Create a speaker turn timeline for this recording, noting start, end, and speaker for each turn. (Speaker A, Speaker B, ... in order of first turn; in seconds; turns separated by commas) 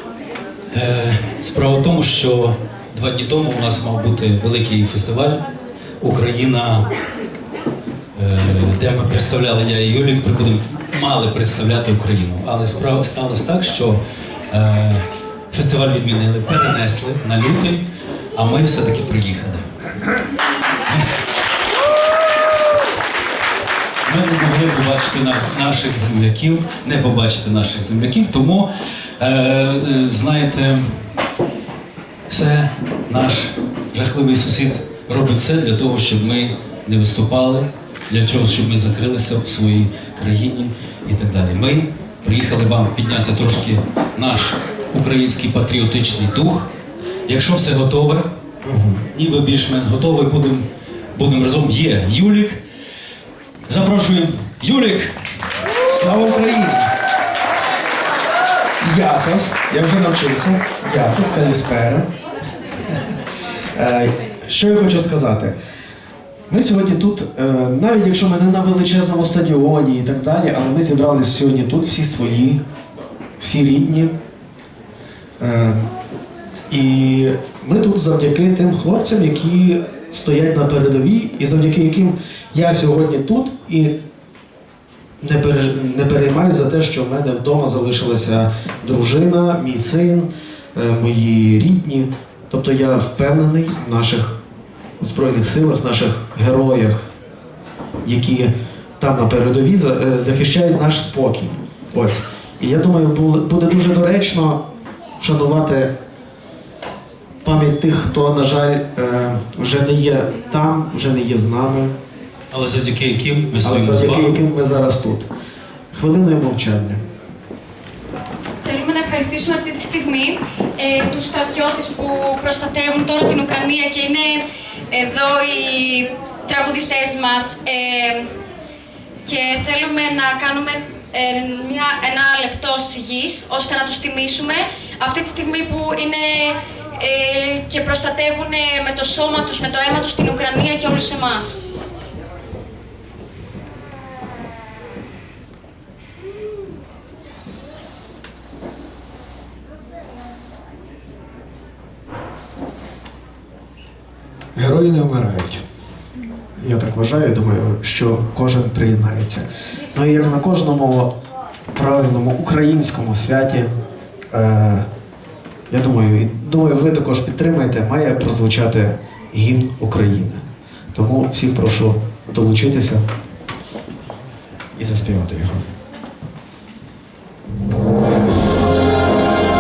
Speaker A: 0.7-5.4, Speaker A: 6.0-6.9, Speaker A: 8.2-19.6, Speaker A: 24.1-30.9, Speaker A: 32.3-46.7, Speaker A: 47.3-48.3, Speaker B: 48.6-49.0, Speaker A: 49.1-52.6, Speaker A: 53.7-55.2, Speaker B: 55.9-56.9, Speaker B: 58.8-62.1, Speaker B: 63.8-65.6, Speaker B: 66.5-72.6, Speaker B: 73.4-74.2, Speaker B: 75.4-75.9, Speaker B: 76.7-84.0, Speaker B: 85.2-94.4, Speaker B: 95.0-97.1, Speaker B: 98.0-104.6, Speaker B: 105.2-105.9, Speaker B: 107.4-112.0, Speaker A: 112.5-114.3, Speaker B: 113.6-115.3, Speaker B: 115.9-117.0, Speaker C: 118.6-128.3, Speaker C: 129.2-141.6, Speaker B: 154.6-155.6, Speaker B: 156.6-161.1, Speaker B: 161.7-163.7, Speaker B: 164.3-164.9, Speaker B: 165.7-173.1, Speaker B: 174.8-175.7